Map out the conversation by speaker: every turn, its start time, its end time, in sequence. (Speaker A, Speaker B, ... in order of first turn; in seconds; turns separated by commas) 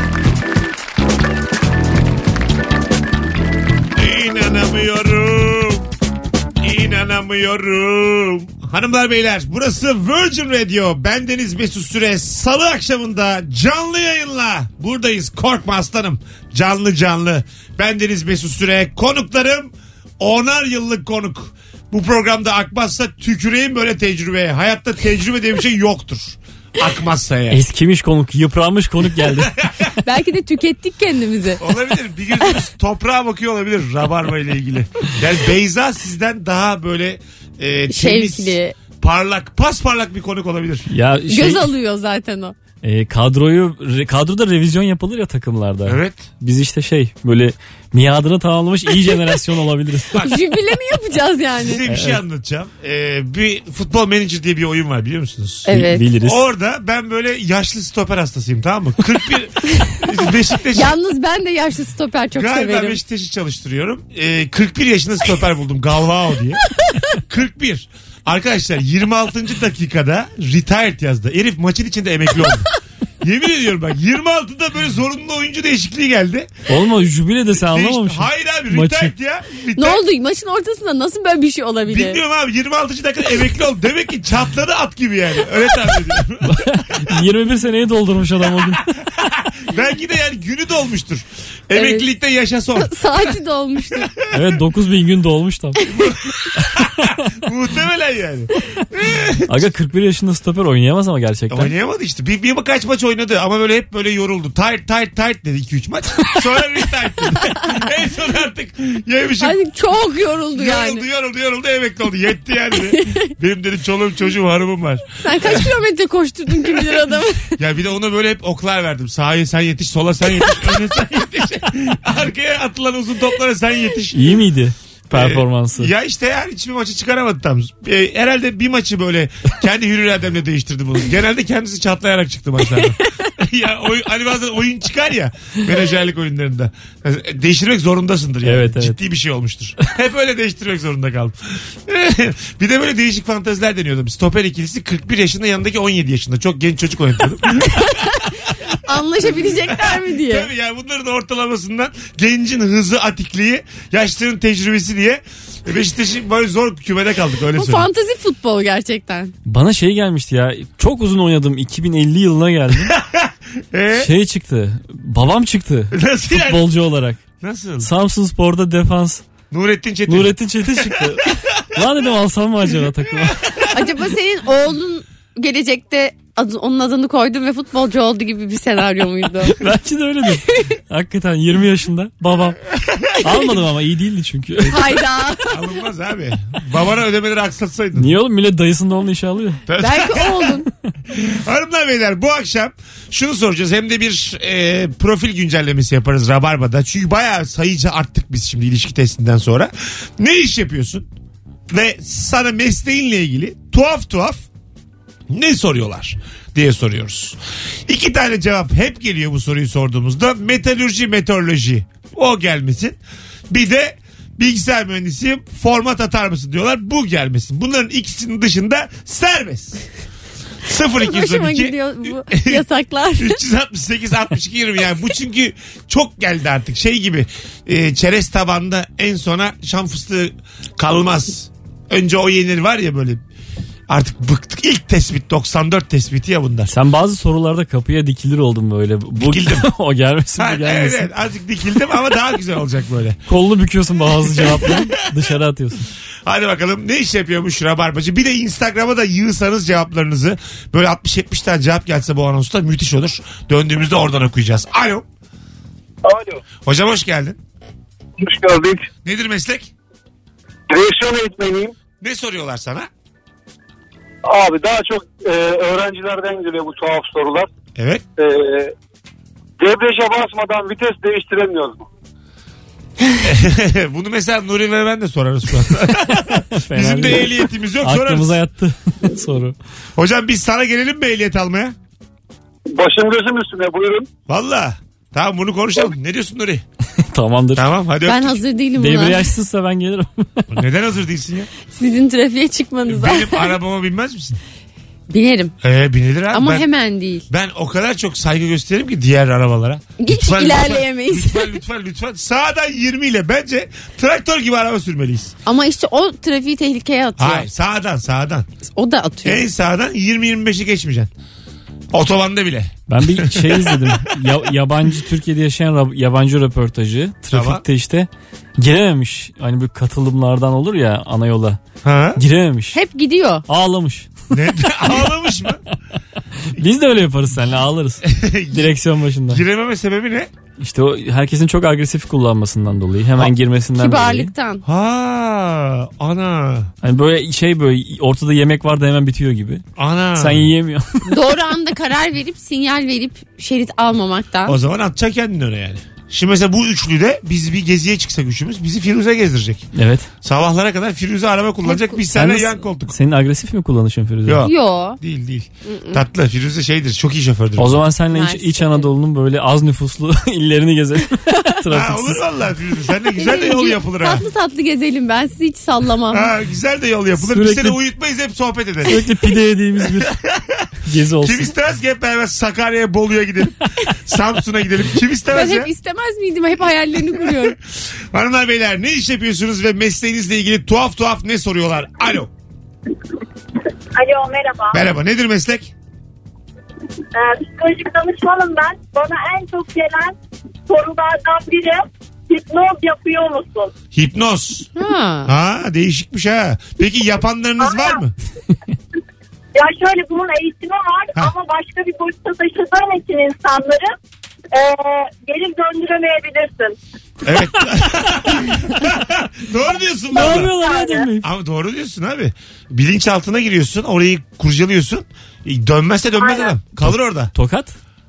Speaker A: 4.0-5.9, Speaker A: 6.6-27.6, Speaker B: 27.5-29.6, Speaker C: 30.0-31.6, Speaker A: 31.6-40.9, Speaker C: 37.9-38.8, Speaker B: 40.9-41.7, Speaker C: 41.3-42.5, Speaker B: 42.8-50.3, Speaker A: 45.9-46.3, Speaker C: 50.2-51.8, Speaker A: 51.6-61.0, Speaker B: 51.9-52.2, Speaker C: 55.7-56.0, Speaker B: 55.7-56.4, Speaker C: 60.7-63.0, Speaker A: 62.4-66.6, Speaker A: 67.2-72.7, Speaker A: 73.2-76.5, Speaker B: 76.7-79.1, Speaker A: 77.6-80.0, Speaker C: 79.8-82.2, Speaker A: 81.9-87.1, Speaker B: 86.5-88.9, Speaker A: 89.2-92.9, Speaker C: 91.7-92.1, Speaker C: 92.8-94.1, Speaker A: 94.1-94.4, Speaker B: 94.3-95.8, Speaker A: 95.9-96.2, Speaker A: 96.8-99.6, Speaker B: 99.5-101.7, Speaker A: 101.5-109.6, Speaker C: 109.4-111.1, Speaker A: 110.5-115.7, Speaker C: 112.9-113.3, Speaker C: 115.2-117.6, Speaker A: 116.7-116.9, Speaker A: 117.6-124.4, Speaker B: 124.1-125.9, Speaker A: 125.1-148.7, Speaker B: 138.4-139.0, Speaker C: 148.8-150.5, Speaker A: 149.4-157.9, Speaker C: 157.6-159.3, Speaker B: 159.5-162.9, Speaker A: 162.9-164.1, Speaker B: 163.9-167.2, Speaker A: 165.9-166.6, Speaker A: 167.4-167.9, Speaker B: 167.8-169.2, Speaker A: 169.5-171.1, Speaker B: 170.1-173.5, Speaker C: 173.7-179.6, Speaker B: 179.4-185.0, Speaker A: 182.8-183.1, Speaker C: 184.6-185.6, Speaker A: 185.5-188.1, Speaker B: 188.0-189.6, Speaker A: 189.7-190.6, Speaker C: 189.8-190.7, Speaker A: 191.1-201.1, Speaker A: 201.7-204.4, Speaker A: 205.3-213.0, Speaker A: 213.5-219.8, Speaker A: 220.7-222.7, Speaker C: 220.9-223.4, Speaker A: 223.2-233.2, Speaker A: 233.9-236.7, Speaker B: 236.7-241.1, Speaker A: 239.2-239.7, Speaker A: 240.4-243.2, Speaker B: 243.3-245.9, Speaker A: 244.3-244.9, Speaker A: 246.3-255.1, Speaker D: 256.0-256.4, Speaker A: 256.6-257.4, Speaker D: 258.2-258.9, Speaker A: 259.1-259.7, Speaker D: 260.7-261.7, Speaker A: 262.0-262.9, Speaker D: 264.2-267.5, Speaker A: 267.8-268.0, Speaker D: 268.2-268.7, Speaker D: 269.6-271.9, Speaker A: 273.2-278.4, Speaker B: 276.6-279.6, Speaker A: 280.0-281.8, Speaker D: 282.7-284.1, Speaker A: 284.3-286.6, Speaker B: 287.0-287.7, Speaker A: 287.6-288.4, Speaker C: 288.1-289.2, Speaker B: 288.8-290.5, Speaker A: 290.5-291.5, Speaker C: 291.7-293.6, Speaker A: 292.9-294.4, Speaker C: 295.1-295.5, Speaker A: 295.6-296.7, Speaker C: 296.3-297.3, Speaker A: 297.3-305.3, Speaker C: 300.0-301.6, Speaker C: 305.5-307.5, Speaker A: 307.2-308.5, Speaker C: 308.8-309.4, Speaker A: 309.2-311.1, Speaker A: 311.9-314.1, Speaker B: 312.9-321.6, Speaker A: 317.3-317.6, Speaker A: 321.8-322.2, Speaker B: 322.2-322.8, Speaker C: 322.7-323.4, Speaker B: 323.5-324.1, Speaker A: 324.3-325.6, Speaker B: 326.5-329.4, Speaker A: 328.1-328.8, Speaker A: 329.3-330.3, Speaker B: 330.6-334.3, Speaker C: 333.8-334.6, Speaker A: 334.6-336.7, Speaker B: 336.8-339.6, Speaker A: 339.8-340.5, Speaker B: 340.2-341.1, Speaker C: 341.1-344.6, Speaker A: 344.5-349.7, Speaker B: 349.8-350.1, Speaker A: 350.2-352.9, Speaker C: 351.6-352.0, Speaker B: 352.1-354.5, Speaker A: 354.3-357.8, Speaker C: 354.4-355.0, Speaker C: 355.6-356.0, Speaker B: 357.6-362.2, Speaker C: 358.1-358.9, Speaker A: 361.7-364.2, Speaker C: 363.2-366.3, Speaker A: 366.1-369.0, Speaker B: 367.2-367.8, Speaker B: 368.9-370.1, Speaker A: 369.9-370.7, Speaker B: 370.8-371.5, Speaker A: 371.2-375.7, Speaker C: 375.3-377.6, Speaker A: 378.1-382.3, Speaker E: 383.9-384.8, Speaker A: 384.7-385.7, Speaker E: 387.1-390.1, Speaker E: 390.7-393.7, Speaker A: 393.9-394.7, Speaker C: 394.8-395.3, Speaker A: 395.3-398.1, Speaker E: 397.6-398.0, Speaker E: 399.6-404.0, Speaker E: 404.5-406.8, Speaker A: 407.2-410.5, Speaker B: 410.1-411.3, Speaker E: 410.1-411.1, Speaker A: 411.2-417.3, Speaker E: 416.2-416.5, Speaker B: 416.8-417.8